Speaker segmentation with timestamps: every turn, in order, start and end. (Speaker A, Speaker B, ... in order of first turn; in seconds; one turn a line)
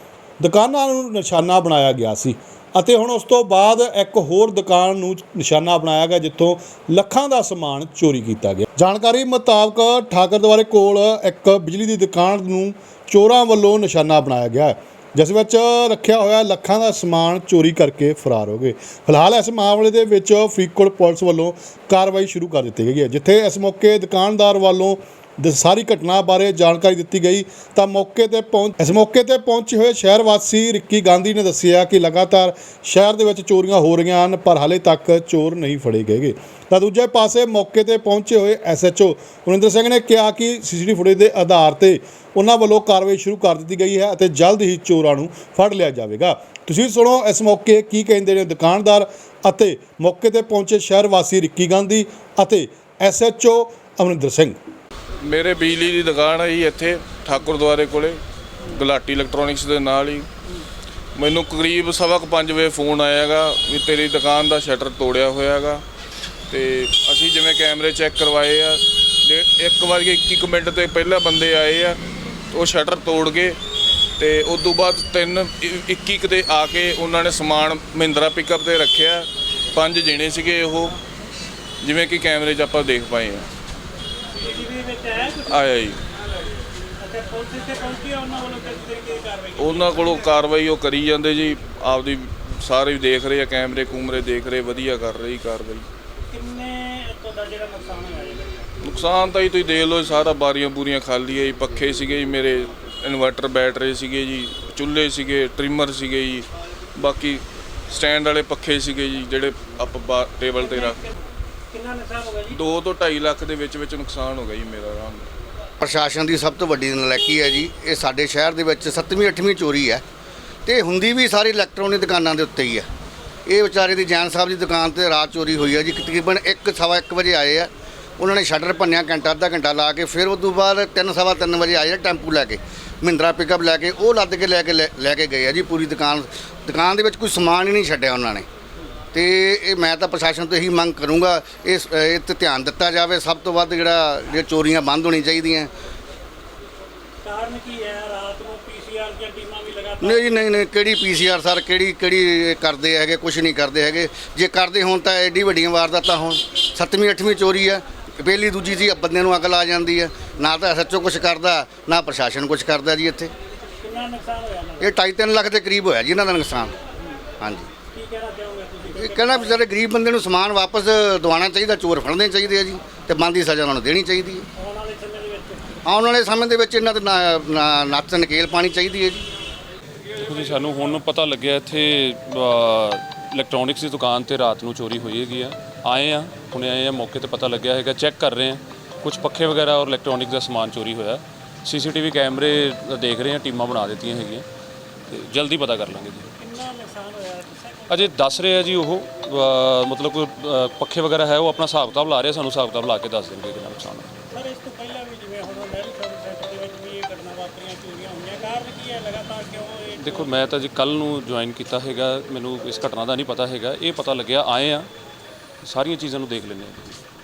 Speaker A: 0.4-54.6
Speaker B: 55.2-60.3
Speaker B: 61.2-65.8
Speaker B: 66.5-72.0
Speaker B: 72.5-73.6
Speaker B: 74.2-81.0
Speaker B: 81.8-83.5
Speaker C: 84.4-85.6
Speaker B: 85.5-86.0
Speaker C: 87.0-90.3
Speaker B: 89.6-95.9
Speaker C: 96.3-98.7
Speaker B: 98.8-111.0
Speaker C: 110.6-111.2
Speaker C: 111.7-112.6
Speaker B: 112.5-115.3
Speaker D: 115.8-120.0
Speaker D: 120.7-122.9
Speaker D: 123.5-138.5
Speaker D: 139.1-145.7
Speaker C: 147.2-150.4
Speaker D: 150.0-163.3
Speaker C: 163.8-165.0
Speaker D: 164.8-166.8
Speaker D: 167.4-167.7
Speaker C: 167.9-169.6
Speaker D: 168.9-174.5
Speaker C: 174.6-175.8
Speaker D: 175.8-179.2
Speaker E: 180.1-194.4
Speaker E: 195.1-196.3
Speaker C: 196.4-198.2
Speaker E: 197.9-204.1
Speaker C: 204.3-210.4
Speaker E: 210.0-214.9
Speaker E: 215.6-217.0